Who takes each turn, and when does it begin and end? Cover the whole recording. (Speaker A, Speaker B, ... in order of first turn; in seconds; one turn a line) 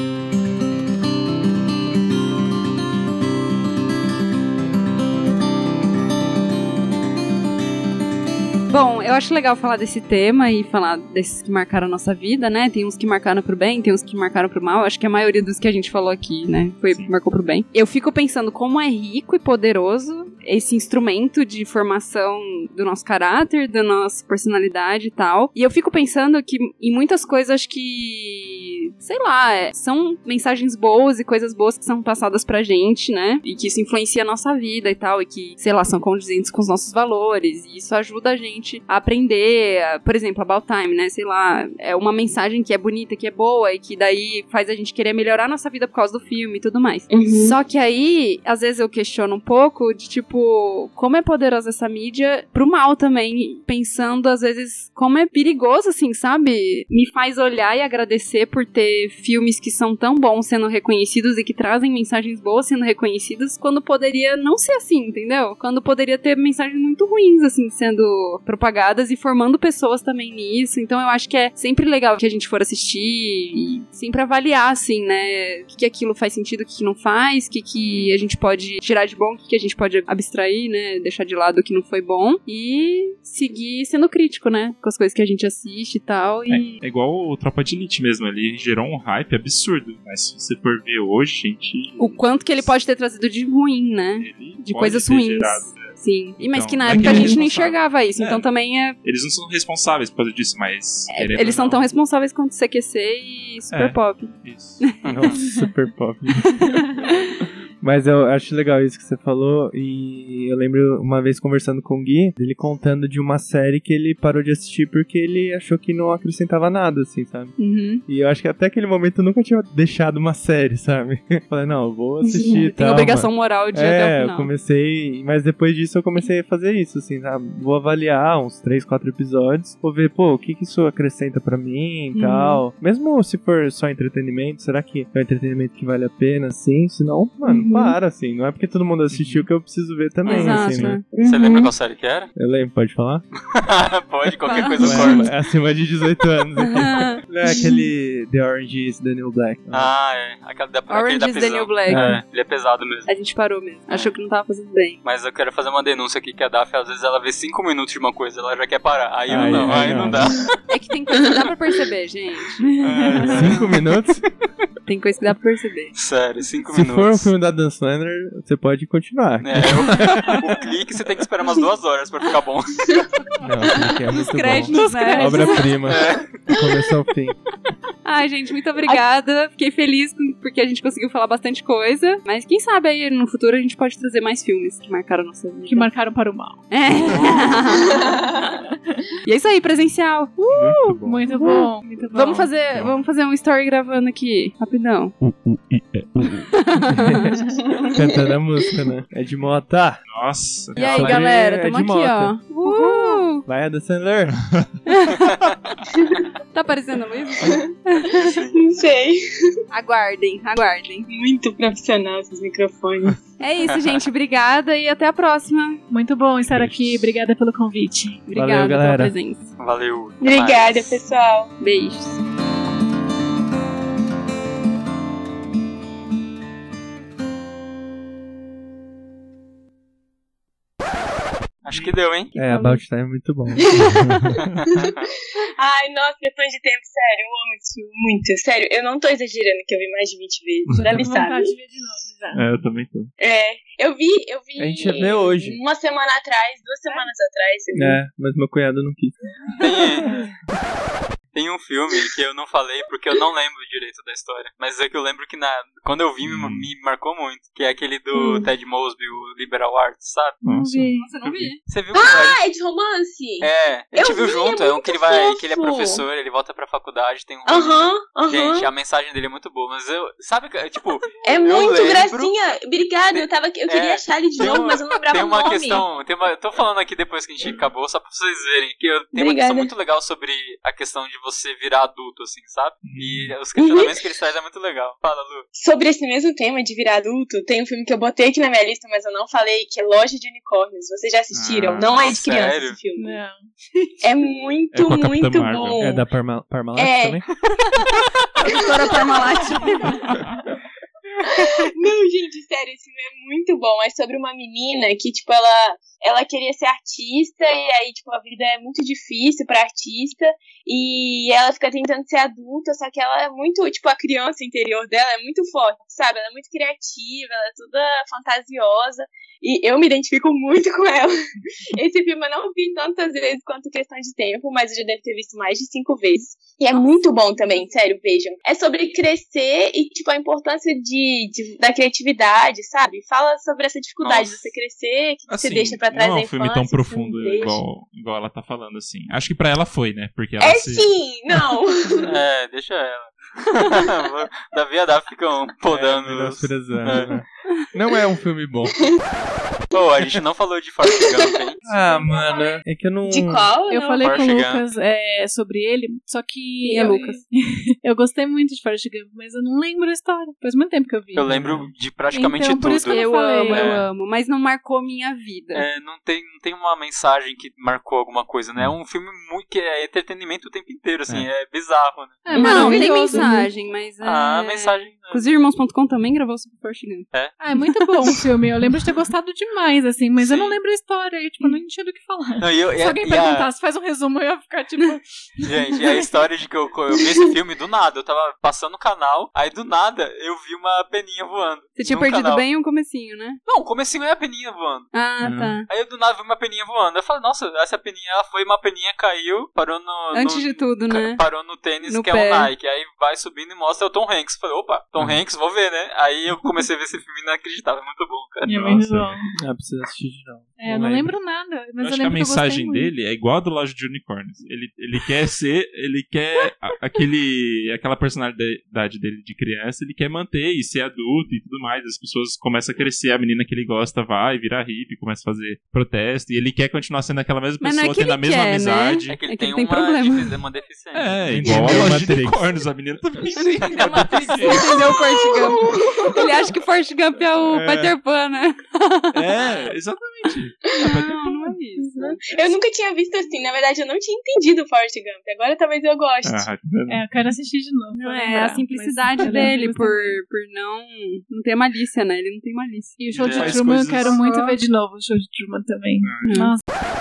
Speaker A: 8.7-86.8
Speaker B: 47.1-47.6
Speaker C: 86.5-92.7
Speaker A: 92.0-99.0
Speaker C: 94.2-98.5
Speaker D: 96.9-97.2
Speaker B: 97.0-97.3
Speaker C: 99.0-101.9
Speaker A: 101.1-105.2
Speaker C: 104.4-104.8
Speaker E: 105.0-105.3
Speaker D: 105.1-106.8
Speaker A: 106.4-107.2
Speaker C: 106.9-107.4
Speaker D: 107.8-141.0
Speaker A: 117.6-118.0
Speaker B: 122.3-122.7
Speaker A: 122.6-124.5
Speaker A: 132.1-132.6
Speaker B: 137.4-137.9
Speaker C: 139.1-139.5
Speaker E: 140.2-140.5
Speaker A: 140.3-141.1
Speaker C: 140.4-141.0
Speaker B: 141.1-141.7
Speaker E: 141.2-142.3
Speaker D: 142.4-143.2
Speaker E: 143.5-145.3
Speaker A: 144.4-145.3
Speaker D: 144.8-149.9
Speaker A: 146.6-147.2
Speaker B: 147.4-147.8
Speaker E: 149.7-153.1
Speaker A: 150.9-152.2
Speaker D: 151.9-152.2
Speaker A: 153.1-155.0
Speaker E: 155.0-160.4
Speaker D: 159.3-160.3
Speaker C: 159.4-160.3
Speaker A: 160.7-163.5
Speaker C: 162.8-163.6
Speaker E: 162.8-163.7
Speaker D: 163.2-164.2
Speaker A: 164.8-165.9
Speaker E: 165.9-167.3
Speaker D: 166.7-170.5
Speaker E: 169.4-172.9
Speaker D: 173.4-177.4
Speaker A: 174.1-175.8
Speaker E: 175.5-176.4
Speaker A: 178.1-185.9
Speaker F: 185.7-186.7
Speaker A: 186.7-188.1
Speaker E: 187.1-187.5
Speaker A: 189.2-195.2
Speaker C: 190.5-191.2
Speaker F: 191.0-192.5
Speaker C: 192.7-193.0
Speaker C: 195.2-196.5
Speaker A: 196.4-197.3
Speaker D: 196.9-197.3
Speaker B: 197.7-198.2
Speaker D: 197.9-200.0
Speaker C: 200.1-201.2
Speaker D: 200.8-202.8
Speaker A: 200.8-203.5
Speaker D: 203.4-204.4
Speaker A: 204.9-205.4
Speaker A: 206.5-208.2
Speaker B: 208.2-209.2
Speaker E: 208.2-208.6
Speaker A: 209.7-211.1
Speaker B: 211.1-213.2
Speaker A: 213.4-215.8
Speaker E: 213.6-214.1
Speaker F: 215.9-218.3
Speaker D: 216.5-217.0
Speaker A: 218.3-219.5
Speaker D: 218.3-219.2
Speaker E: 219.6-220.8
Speaker B: 220.2-221.5
Speaker A: 221.6-222.2
Speaker E: 231.6-232.3
Speaker C: 231.7-231.9
Speaker D: 232.3-234.3
Speaker F: 232.4-232.8
Speaker B: 233.6-234.0
Speaker E: 234.7-235.0
Speaker B: 235.6-241.6
Speaker F: 240.8-242.5
Speaker C: 242.3-243.1
Speaker B: 243.2-248.0
Speaker D: 244.6-245.6
Speaker D: 247.7-249.2
Speaker E: 249.6-250.1
Speaker E: 251.3-260.4
Speaker C: 256.2-256.7
Speaker B: 258.2-258.4
Speaker F: 260.4-261.1
Speaker C: 260.4-261.5
Speaker A: 261.0-261.6
Speaker E: 261.7-262.4
Speaker B: 261.9-266.0
Speaker E: 263.4-272.3
Speaker B: 267.5-268.7
Speaker B: 271.2-275.9
Speaker E: 273.1-285.5
Speaker B: 279.1-279.7
Speaker C: 282.9-283.4
Speaker B: 283.6-283.9
Speaker B: 285.6-293.2
Speaker C: 291.3-292.1
Speaker E: 292.0-292.8
Speaker F: 293.0-293.4
Speaker B: 294.0-296.0
Speaker C: 294.7-295.9
Speaker D: 295.8-297.2
Speaker B: 296.8-297.2
Speaker A: 298.4-300.1
Speaker B: 298.4-300.0
Speaker B: 301.2-321.1
Speaker B: 321.8-337.6
Speaker E: 334.0-334.5
Speaker C: 335.3-340.9
Speaker B: 340.4-342.2
Speaker E: 342.0-347.1
Speaker D: 345.7-348.9
Speaker E: 349.7-351.6
Speaker B: 350.9-351.3
Speaker F: 351.6-352.2
Speaker D: 351.6-353.6
Speaker B: 353.1-354.0
Speaker F: 353.7-361.3
Speaker E: 354.0-354.6
Speaker A: 356.7-357.2
Speaker E: 361.1-363.8
Speaker C: 361.3-361.7
Speaker F: 362.1-363.8
Speaker A: 362.9-365.7
Speaker E: 365.5-372.3
Speaker F: 372.2-373.5
Speaker B: 372.3-373.3
Speaker A: 372.4-377.2
Speaker E: 374.0-375.3
Speaker F: 377.4-386.1
Speaker E: 380.2-380.6
Speaker E: 382.4-383.5
Speaker E: 385.4-392.5
Speaker A: 391.8-393.4
Speaker E: 393.5-394.9
Speaker A: 394.9-395.7
Speaker C: 395.2-395.6
Speaker E: 395.7-408.8
Speaker A: 400.1-401.2
Speaker A: 401.9-402.5
Speaker F: 408.4-409.3
Speaker C: 408.6-409.1
Speaker D: 409.4-411.1
Speaker F: 410.6-412.9
Speaker C: 411.8-429.2
Speaker A: 427.6-430.4
Speaker E: 429.1-431.9
Speaker C: 430.9-434.9
Speaker D: 431.4-432.4
Speaker A: 431.4-432.1
Speaker A: 433.4-439.6
Speaker E: 433.7-434.7
Speaker B: 434.9-436.4
Speaker D: 437.5-437.9
Speaker C: 439.1-441.6
Speaker A: 440.8-442.4
Speaker B: 441.8-446.5
Speaker C: 446.2-447.1
Speaker F: 446.9-450.2
Speaker A: 447.9-453.0
Speaker F: 453.0-456.6
Speaker C: 453.1-454.2
Speaker E: 453.1-453.7
Speaker C: 456.0-456.3
Speaker A: 456.2-456.5